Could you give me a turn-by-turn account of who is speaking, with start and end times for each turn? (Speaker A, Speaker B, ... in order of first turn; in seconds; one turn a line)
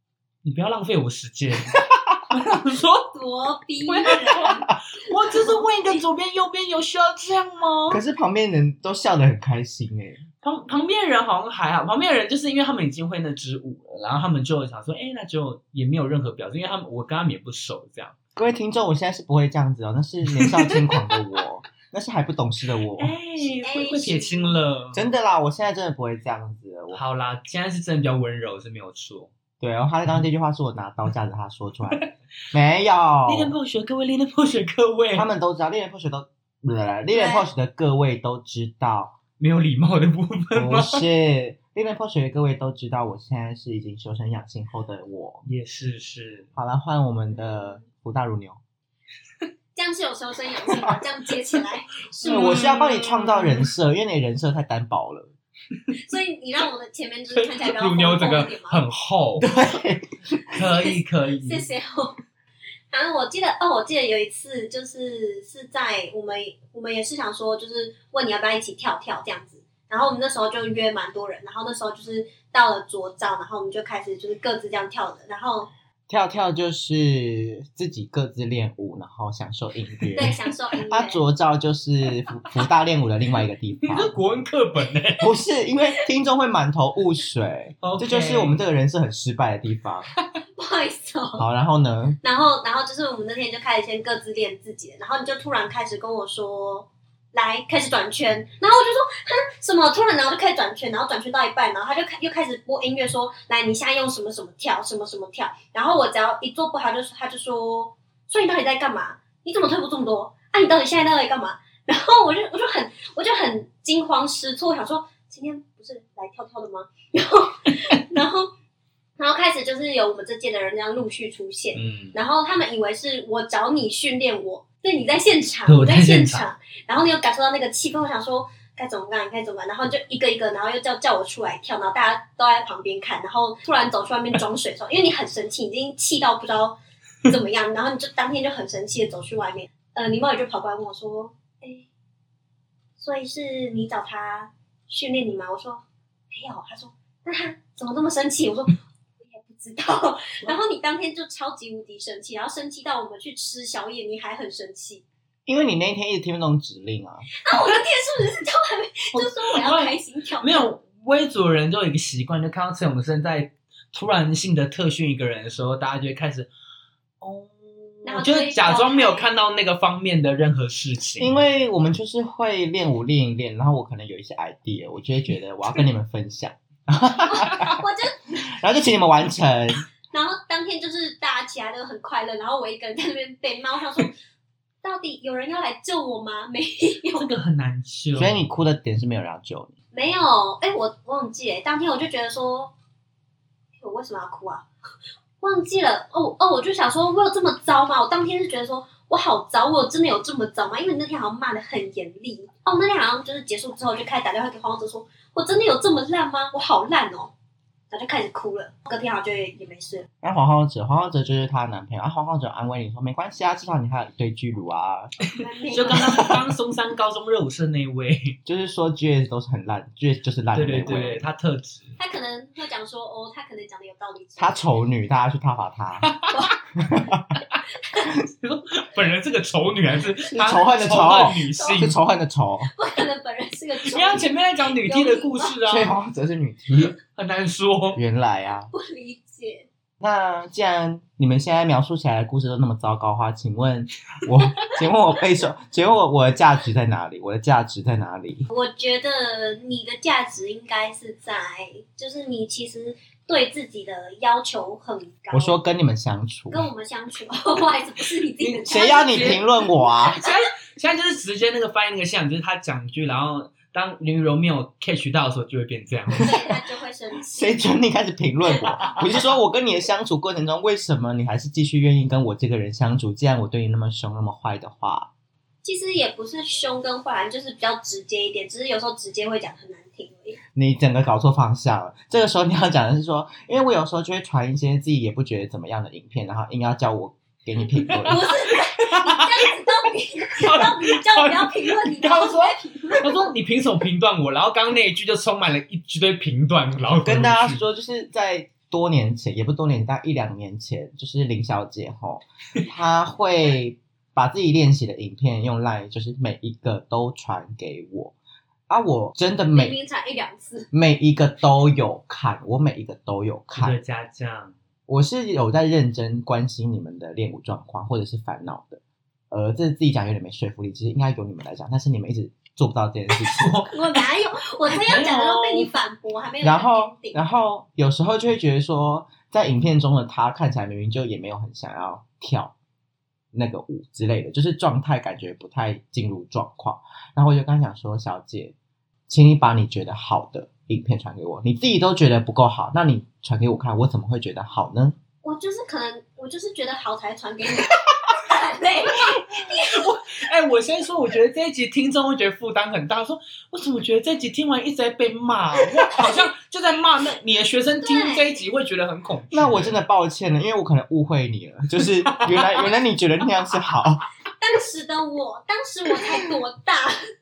Speaker A: 0.4-3.1
Speaker B: 3.1-4.6
Speaker A: 3.8-8.0
Speaker C: 4.5-4.7
Speaker B: 5.2-6.0
Speaker C: 7.9-10.2
Speaker A: 10.4-18.1
Speaker C: 18.4-23.2
Speaker A: 20.3-21.1
Speaker A: 23.0-25.1
Speaker B: 23.4-24.6
Speaker C: 24.9-27.0
Speaker A: 26.9-29.3
Speaker C: 29.6-33.5
Speaker A: 33.3-35.3
Speaker C: 35.1-39.2
Speaker B: 37.1-37.5
Speaker A: 39.4-41.0
Speaker C: 40.5-45.5
Speaker A: 45.5-46.5
Speaker C: 46.5-48.6
Speaker B: 47.4-47.8
Speaker B: 49.8-52.7
Speaker A: 52.2-53.7
Speaker C: 52.2-55.3
Speaker B: 56.0-58.8
Speaker A: 57.3-59.6
Speaker C: 59.4-60.5
Speaker A: 60.5-61.6
Speaker B: 60.6-62.2
Speaker B: 62.9-75.7
Speaker C: 76.1-80.3
Speaker B: 80.1-81.2
Speaker C: 80.9-84.1
Speaker A: 83.8-85.3
Speaker C: 85.2-90.1
Speaker A: 87.8-88.6
Speaker B: 90.5-91.4
Speaker C: 91.4-92.2
Speaker B: 92.2-118.5
Speaker B: 119.2-141.8
Speaker A: 121.7-122.2
Speaker A: 125.7-126.5
Speaker B: 143.0-155.0
Speaker C: 155.4-157.3
Speaker B: 157.4-160.7
Speaker A: 159.1-166.5
Speaker A: 167.2-171.4
Speaker B: 168.0-169.3
Speaker C: 171.2-177.8
Speaker B: 177.3-178.4
Speaker C: 178.5-179.8
Speaker B: 180.1-184.1
Speaker B: 184.8-187.3
Speaker A: 187.2-188.4
Speaker C: 188.1-189.7
Speaker B: 189.9-192.7
Speaker B: 193.8-194.7
Speaker B: 195.4-207.3
Speaker B: 207.9-210.1
Speaker C: 210.2-215.2
Speaker B: 215.3-216.3
Speaker A: 215.7-218.3
Speaker C: 215.9-216.3
Speaker C: 218.4-221.3
Speaker A: 220.5-222.0
Speaker B: 222.0-224.6
Speaker C: 224.4-226.1
Speaker A: 226.0-226.6
Speaker B: 226.3-226.6
Speaker C: 226.8-227.4
Speaker A: 228.3-232.0
Speaker C: 230.3-232.7
Speaker B: 231.5-231.9
Speaker B: 232.7-235.5
Speaker A: 233.8-236.0
Speaker C: 235.7-236.9
Speaker A: 237.0-238.0
Speaker C: 237.9-238.7
Speaker B: 238.7-239.7
Speaker C: 240.0-248.5
Speaker B: 248.5-255.6
Speaker C: 255.3-256.7
Speaker B: 256.5-260.4
Speaker A: 258.4-259.4
Speaker C: 258.7-260.2
Speaker A: 260.2-266.4
Speaker B: 266.2-267.7
Speaker C: 267.3-275.1
Speaker B: 275.6-280.4
Speaker C: 280.5-288.2
Speaker A: 287.8-289.5
Speaker B: 288.1-293.3
Speaker A: 290.4-297.6
Speaker C: 297.0-308.1
Speaker C: 308.7-309.8
Speaker B: 309.5-310.7
Speaker C: 310.7-313.8
Speaker A: 313.6-314.5
Speaker C: 314.9-318.8
Speaker C: 319.3-323.6
Speaker A: 323.3-324.0
Speaker B: 323.7-327.2
Speaker A: 324.7-325.7
Speaker C: 326.4-332.5
Speaker C: 333.3-338.5
Speaker C: 339.1-344.9
Speaker B: 345.2-349.9
Speaker A: 349.0-359.8
Speaker B: 357.8-358.4
Speaker C: 359.3-364.1
Speaker A: 361.8-362.7
Speaker B: 364.4-367.0